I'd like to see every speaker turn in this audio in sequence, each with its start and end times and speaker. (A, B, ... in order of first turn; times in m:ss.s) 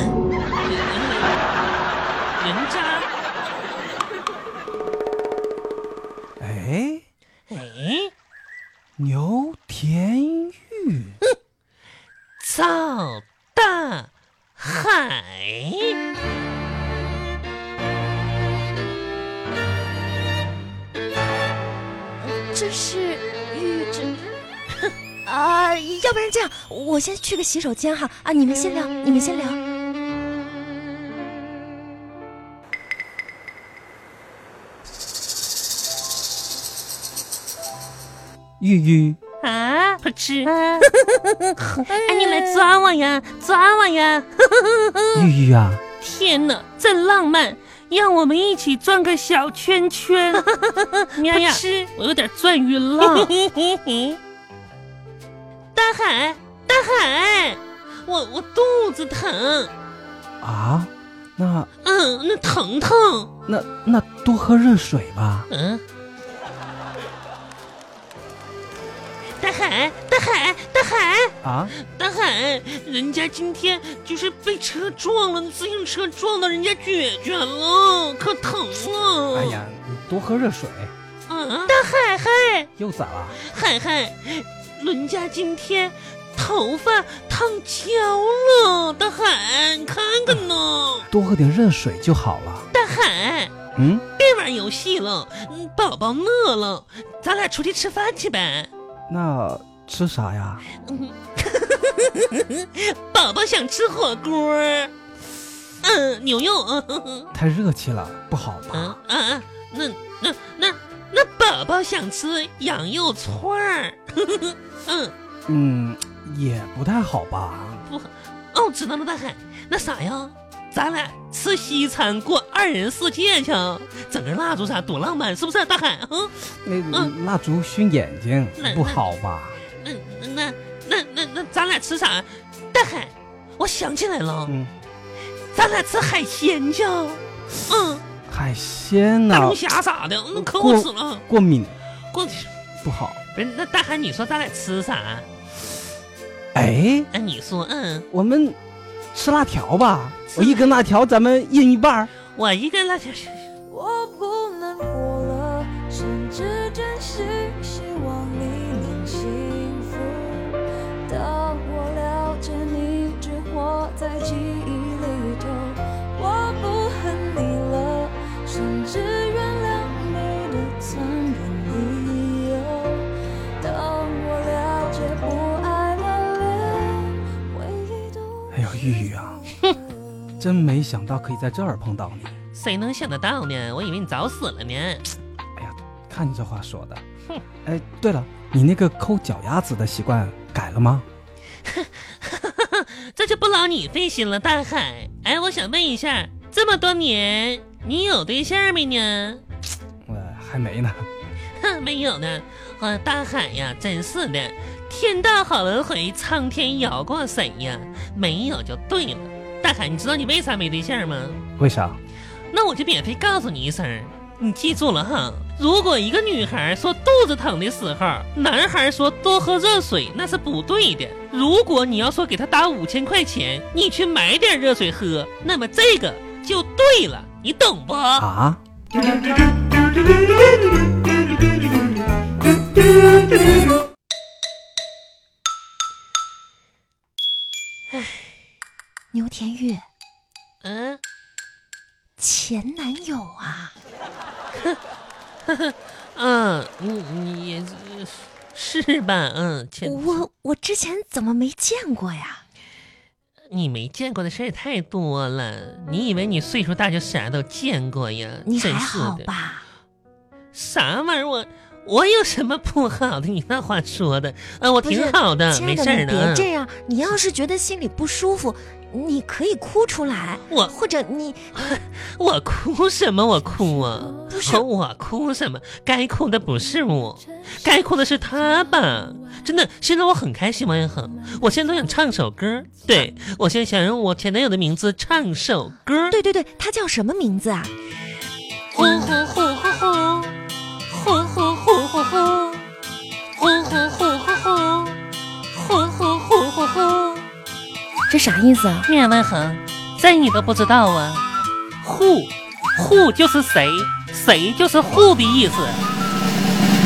0:00.6-0:01.4 A
0:02.4-0:03.1 A
0:06.4-0:07.0 B
0:07.5-0:08.1 A
0:09.0-0:11.2 B
0:12.4-0:16.0 A
0:22.2-0:24.3 C
0:25.2-0:29.6 C
0:38.6-0:39.2 B
0:39.4-0:40.9 A
0:40.8-0:41.2 C
0:41.6-0:45.3 A
0:41.9-0:42.6 C
0:45.1-0:45.8 B
0:46.0-0:54.2 A
0:51.3-0:51.6 C
0:53.0-0:53.3 C
0:55.7-0:59.7 A
1:00.4-1:01.7 B
1:01.8-1:03.3 A
1:03.5-1:05.5 B
1:05.5-1:05.8 A
1:09.4-1:11.3 A
1:11.4-1:11.7 B
1:11.9-1:19.6 A
1:19.3-1:20.9 B
1:21.3-1:22.7 A
1:22.8-1:23.4 B
1:23.3-1:31.1 A
1:31.1-1:32.7 B
1:32.7-1:33.5 A
1:33.7-1:34.0 B
1:34.2-1:38.7 A
1:39.1-1:40.6 B
1:40.8-1:44.9 A
1:45.8-1:47.3 A
1:47.3-1:49.0 B
1:48.7-1:55.1 A
1:55.5-1:57.8 B
1:57.9-2:06.4 A
2:06.6-2:09.6 B
2:08.6-2:09.1 A
2:09.8-2:14.6 A
2:14.5-2:14.7 B
2:15.5-2:18.0 A
2:18.3-2:19.6 B
2:19.3-2:21.2 A
2:20.4-2:21.8 B
2:22.1-2:22.5 A
2:22.8-2:23.2 B
2:23.3-2:25.2 A
2:26.5-2:27.1 B
2:27.1-2:28.1 A
2:28.1-2:28.6 B
2:29.1-2:32.1 B
2:30.3-2:30.8 A
2:32.4-2:33.5 A
2:33.7-2:51.1 D
2:50.8-2:52.0 C
2:51.8-2:53.0 D
2:53.6-2:58.5 D
2:58.5-2:59.5 B
3:00.4-3:02.3 B
3:02.5-3:05.1 A
3:05.6-3:07.0 B
3:07.6-3:11.0 B
3:11.6-3:19.4 A
3:20.0-3:21.1 B
3:21.6-3:31.4 A
3:31.6-3:32.0 B
3:32.5-3:48.3 A
3:48.2-3:48.6 B
3:59.1-3:59.8 C
4:00.6-4:01.0 A
4:02.2-4:03.7 C
4:05.5-4:10.2 A
4:09.8-4:12.4 C
4:13.5-4:19.3 A
4:18.4-4:19.6 C
4:20.5-4:26.5 A
4:24.8-4:31.7 C
4:30.5-4:30.7 A
4:31.5-4:46.2 A
4:34.2-4:34.6 C
4:46.1-4:47.7 C
4:48.7-4:50.3 A
4:48.8-4:49.1 C
4:50.9-4:52.6 A
4:53.3-4:55.0 A
4:55.5-4:57.2 A
4:58.1-4:58.9 C
4:58.9-5:01.2 A
5:01.8-5:05.8 A